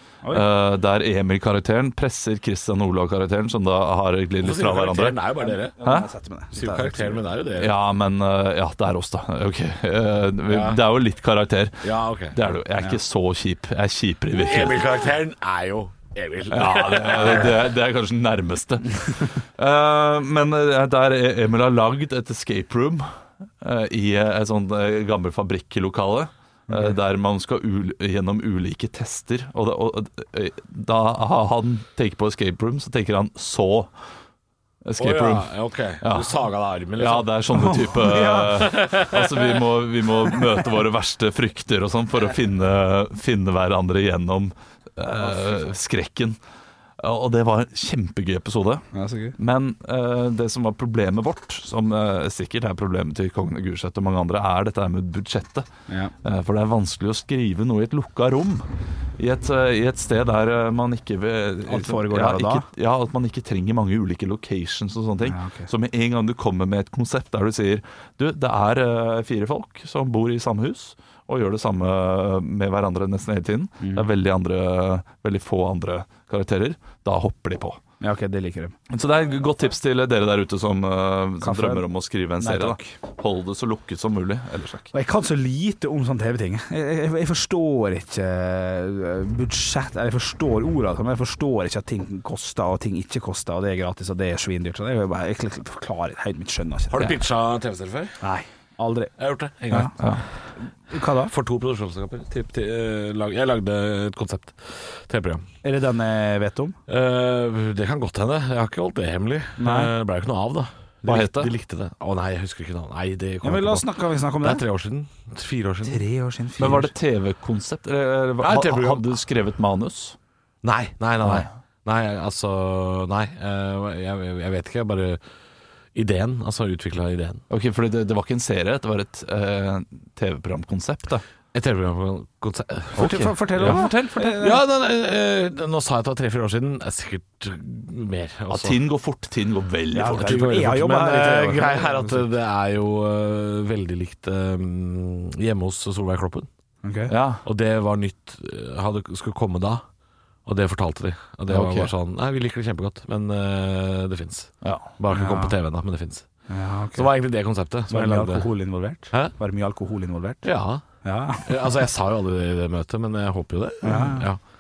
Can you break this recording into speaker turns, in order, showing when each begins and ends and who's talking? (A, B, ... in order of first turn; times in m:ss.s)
0:00.3-0:05.2 A
0:04.4-0:05.8 B
0:05.4-0:07.2 C
0:05.8-0:06.1 A
0:06.5-0:07.7 B
0:07.6-0:15.0 A
0:10.5-0:10.8 B
0:11.8-0:12.4 B
0:14.3-0:17.7 B
0:16.5-0:33.9 A
0:26.7-0:27.0 C
0:34.8-0:36.3 A
0:35.0-0:37.3 B
0:37.0-0:46.4 A
0:37.5-0:39.0 C
0:39.0-0:39.3 B
0:45.3-0:45.6 C
0:47.0-0:48.9 A
0:48.9-0:49.4 C
0:49.4-0:55.6 A
0:55.9-0:56.1 C
0:56.2-1:17.8 A
1:01.6-1:02.6 C
1:05.2-1:05.7 C
1:13.8-1:14.1 C
1:18.0-1:18.8 C
1:18.9-1:24.9 A
1:21.4-1:21.8 C
1:22.4-1:22.9 C
1:24.9-1:37.1 C
1:36.9-1:38.2 B
1:38.2-1:39.1 C
1:39.2-1:40.0 B
1:40.8-1:41.3 C
1:41.2-1:45.4 B
1:45.6-1:46.8 C
1:46.9-1:53.9 B
1:49.6-1:49.9 C
1:51.0-1:51.5 A
1:53.4-1:54.6 C
1:54.4-1:56.0 B
1:55.8-1:56.9 C
1:56.6-2:00.2 A
1:58.4-1:59.1 B
2:00.6-2:05.2 B
2:05.9-2:07.4 B
2:07.5-2:11.2 A
2:11.5-2:13.8 B
2:13.0-2:14.6 C
2:13.0-2:14.4 A
2:14.4-2:18.8 B
2:18.5-2:20.5 A
2:19.9-2:22.2 C
2:20.1-2:26.5 B
2:26.8-2:27.1 C
2:27.1-2:27.4 A
2:27.4-2:29.8 B
2:30.4-2:36.3 B
2:31.5-2:31.9 A
2:35.1-2:35.6 C
2:36.5-2:37.1 C
2:36.9-2:38.4 B
2:37.9-2:40.4 C
2:40.4-2:40.8 B
2:41.0-2:41.5 C
2:41.4-2:44.4 B
2:43.8-2:44.3 C